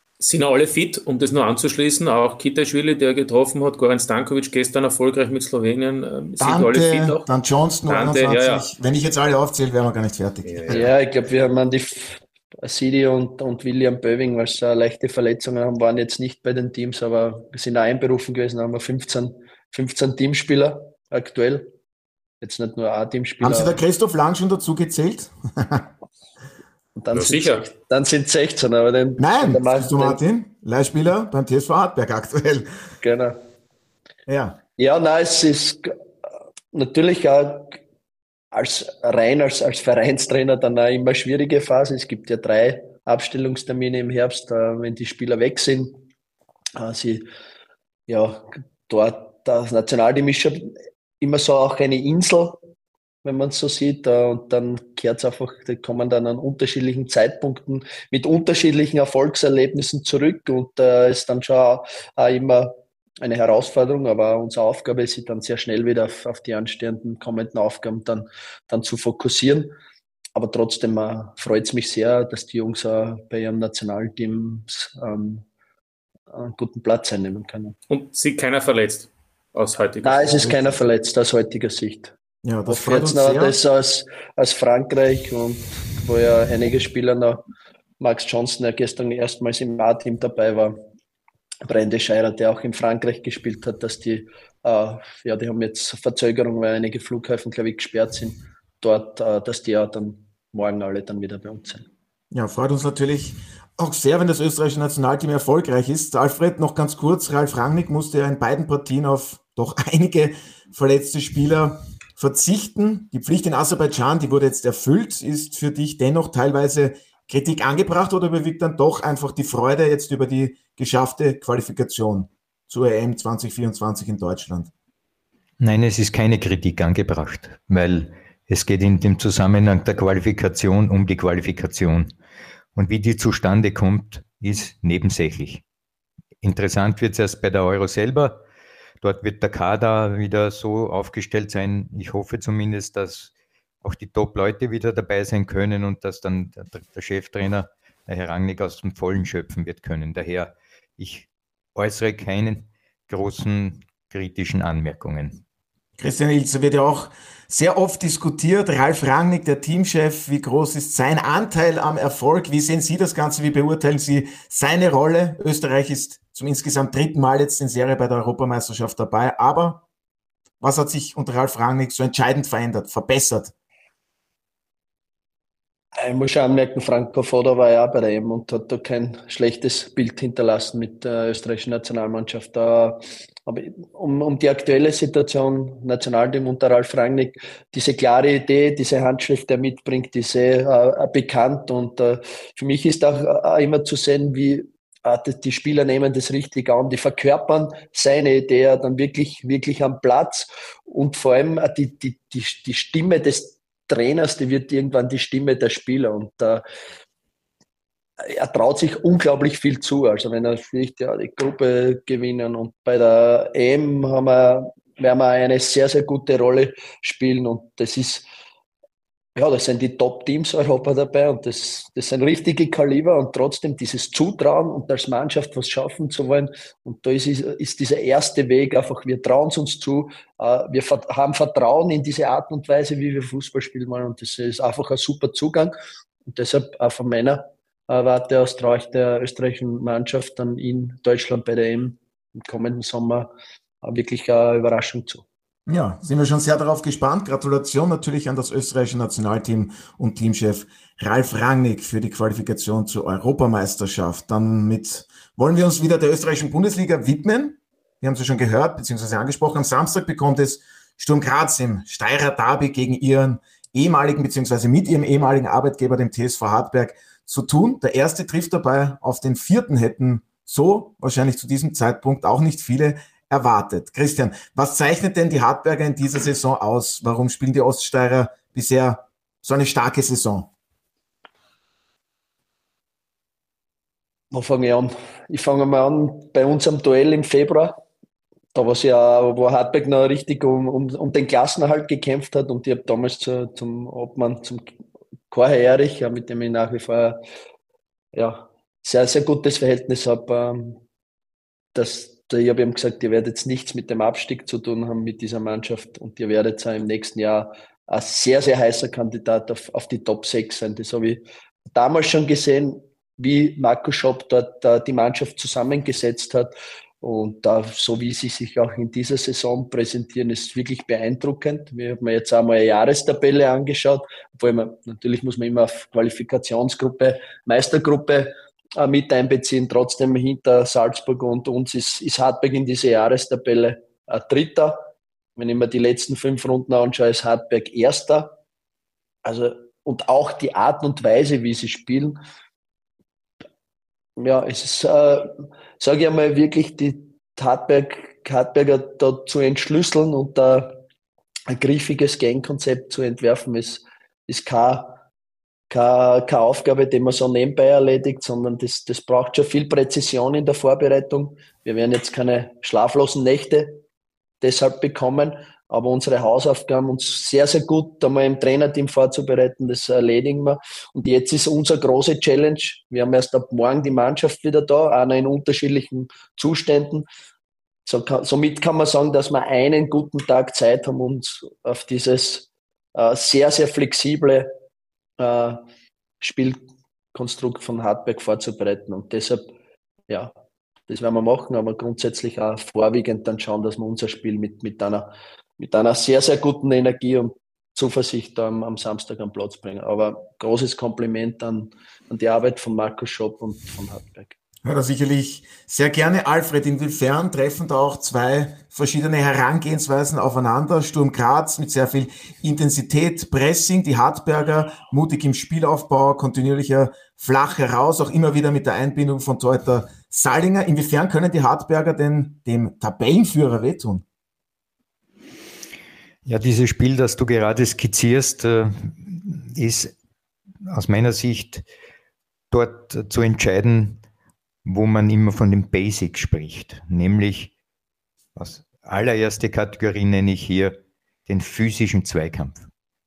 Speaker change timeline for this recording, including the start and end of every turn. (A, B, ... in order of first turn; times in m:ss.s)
0:00.2-0:07.3 A
0:06.4-0:10.9 B
0:07.9-0:08.7 A
0:10.5-0:10.9 A
0:10.7-0:21.7 C
0:22.4-0:23.8 C
0:23.4-0:25.9 B
0:27.0-0:30.2 C
0:27.1-0:27.7 A
0:29.2-0:32.7 B
0:33.0-0:33.4 C
0:34.3-0:34.6 B
0:34.8-0:35.9 C
0:36.7-0:37.8 C
0:38.5-0:46.0 C
0:46.8-0:47.3 C
0:48.1-0:52.6 C
0:53.2-1:09.7 C
1:10.4-1:15.4 C
1:16.3-1:17.8 C
1:17.9-1:20.6 A
1:20.0-1:22.1 C
1:22.4-1:23.6 B
1:22.7-1:27.4 C
1:28.0-1:30.8 C
1:31.7-1:41.9 C
1:42.3-2:04.7 B
2:05.6-2:12.1 D
2:12.8-2:15.6 D
2:16.4-2:18.4 D
2:19.0-2:23.3 D
2:23.8-2:35.4 D
2:36.0-2:49.8 B
2:50.6-2:53.5 B
2:56.0-3:26.6 C
3:28.2-3:38.3 C
3:39.4-3:55.7 C
3:56.3-4:03.3 C
4:03.8-4:05.2 C
4:05.7-4:40.5 B
4:44.3-4:47.8 C
4:48.5-4:54.7 C
4:55.3-4:57.2 C
4:58.1-5:00.8 C
5:01.8-5:38.3 C
5:39.2-5:42.2 C
5:44.2-5:50.8 C
5:51.5-5:55.0 C
5:55.7-6:03.8 C
6:04.4-6:17.1 C
6:17.9-6:24.5 C
6:25.2-6:25.6 C
6:26.2-6:29.5 C
6:30.9-6:44.4 C
6:44.6-7:04.0 B
7:06.2-7:09.9 D
7:10.7-7:11.7 D
7:12.5-7:14.0 D
7:14.6-7:17.5 D
7:18.4-7:22.7 D